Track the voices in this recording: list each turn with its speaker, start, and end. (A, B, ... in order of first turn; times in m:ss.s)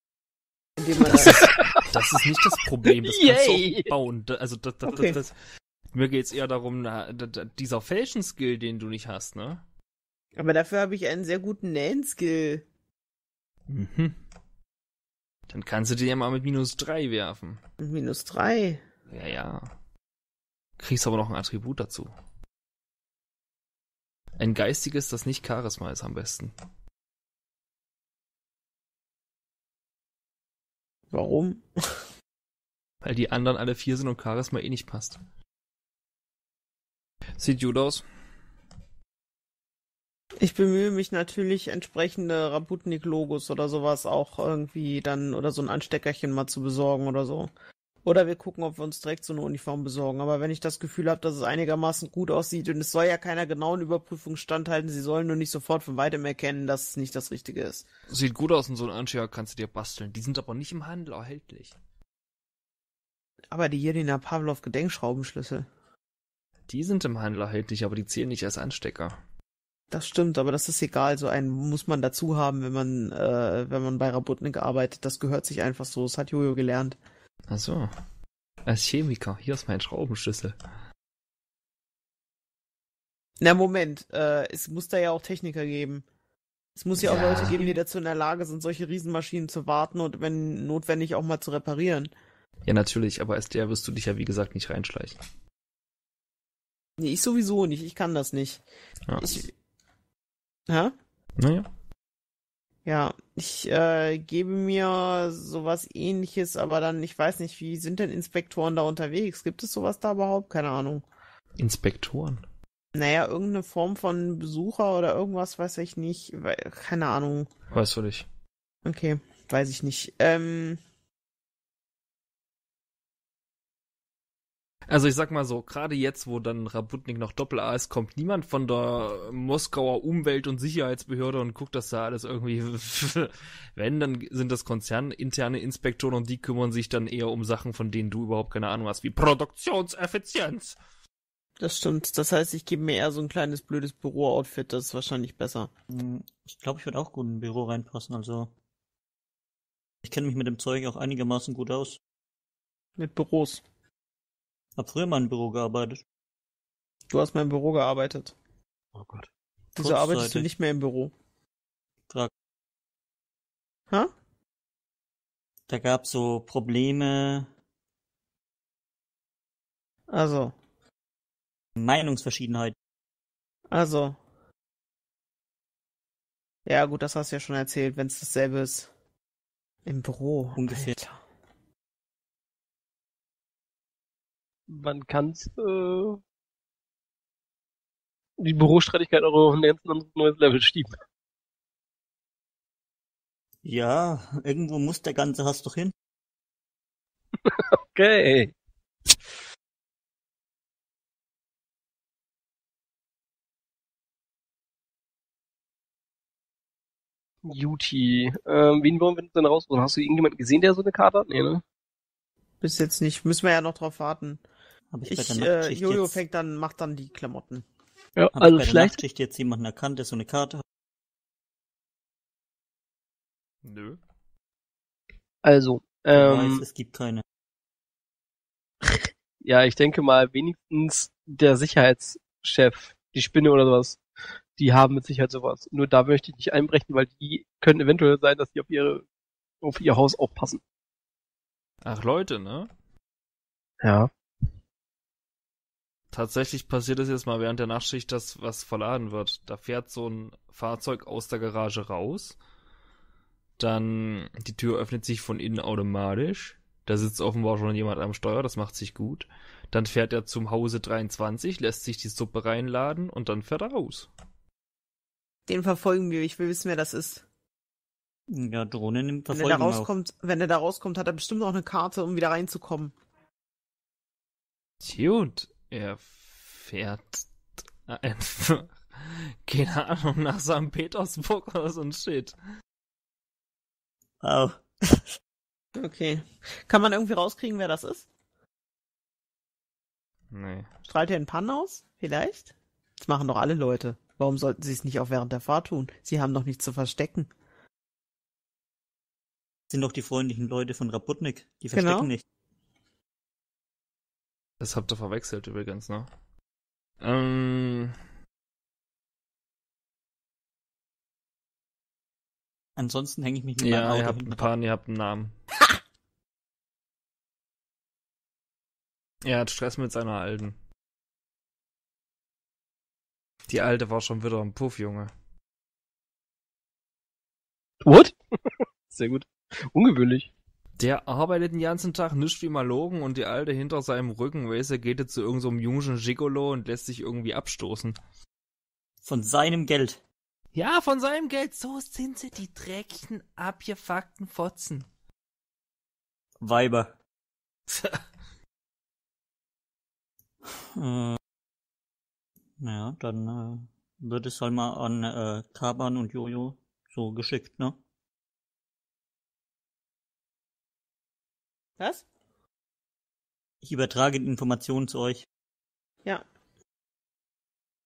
0:00.8-0:01.5 A
0:01.1-0:05.4 B
0:01.1-0:03.9 C
0:04.9-0:05.2 A
0:05.9-0:09.6 B
0:10.4-0:12.6 A
0:13.7-0:14.2 B
0:15.5-0:17.6 B
0:17.8-0:18.8 A
0:19.1-0:19.7 B
0:20.8-0:22.1 B
0:24.4-0:26.5 B
0:31.1-0:31.7 A
0:33.0-0:35.2 B
0:37.4-0:38.0 B
0:40.4-0:47.5 A
0:48.0-0:57.8 A
0:58.1-1:01.8 B
1:03.5-1:05.7 A
1:06.7-1:09.2 B
1:09.9-1:17.0 A
1:17.5-1:17.9 B
1:18.7-1:20.6 B
1:23.4-1:26.1 A
1:26.8-1:32.1 A
1:27.0-1:27.6 B
1:32.6-1:35.2 B
1:37.0-1:38.6 A
1:39.1-1:39.4 B
1:39.2-1:39.5 A
1:40.7-1:40.9 A
1:41.4-1:41.7 B
1:42.8-1:51.0 A
1:51.6-1:52.4 B
1:53.0-1:57.5 A
1:57.7-1:58.3 B
1:58.8-2:00.8 A
2:04.9-2:20.8 B
2:21.6-2:25.7 A
2:25.9-2:28.5 D
2:30.0-2:32.0 D
2:33.0-2:33.6 A
2:34.8-2:36.0 D
2:37.1-2:38.3 A
2:39.0-2:39.3 C
2:39.8-2:40.5 D
2:39.8-2:41.1 A
2:45.7-2:47.5 D
2:50.1-2:50.5 A
2:51.8-2:52.8 D
2:53.7-2:54.2 A
2:56.7-2:58.9 A
2:59.9-3:01.2 A
3:00.6-3:01.0 D
3:04.7-3:06.2 C
3:08.4-3:11.0 C
3:13.6-3:15.9 D
3:17.4-3:18.5 C
3:27.4-3:31.6 C
3:32.6-3:34.4 A
3:34.9-3:36.2 D
3:35.1-3:37.7 A
3:38.2-3:39.0 C
3:38.4-3:40.6 D
3:43.6-3:44.0 B
3:45.4-3:46.6 C
3:46.2-3:47.2 D
3:49.4-3:54.0 C
3:54.6-3:59.0 C
3:59.6-4:00.6 C
4:01.8-4:02.7 B
4:03.8-4:04.1 C
4:06.1-4:12.4 B
4:13.6-4:24.1 B
4:25.5-4:27.2 A
4:28.3-4:29.9 D
4:29.3-4:33.0 A
4:34.8-4:37.3 B
4:37.9-4:42.4 B
4:44.2-4:45.2 D
4:45.8-4:48.1 A
4:50.3-4:50.7 B
4:50.9-4:57.3 A
4:59.7-5:02.2 D
5:01.7-5:02.1 A
5:04.6-5:06.1 B
5:07.0-5:08.0 B
5:12.8-5:14.5 D
5:13.6-5:15.4 B
5:19.2-5:20.6 B
5:23.5-5:25.1 B
5:27.8-5:30.3 C
5:30.8-5:38.0 B
5:39.0-5:40.0 D
5:40.6-5:44.9 B
5:46.4-5:47.0 D
5:47.7-5:48.0 B
5:50.8-5:51.2 D
5:52.6-5:57.8 D
6:01.8-6:02.0 A
6:03.6-6:05.2 D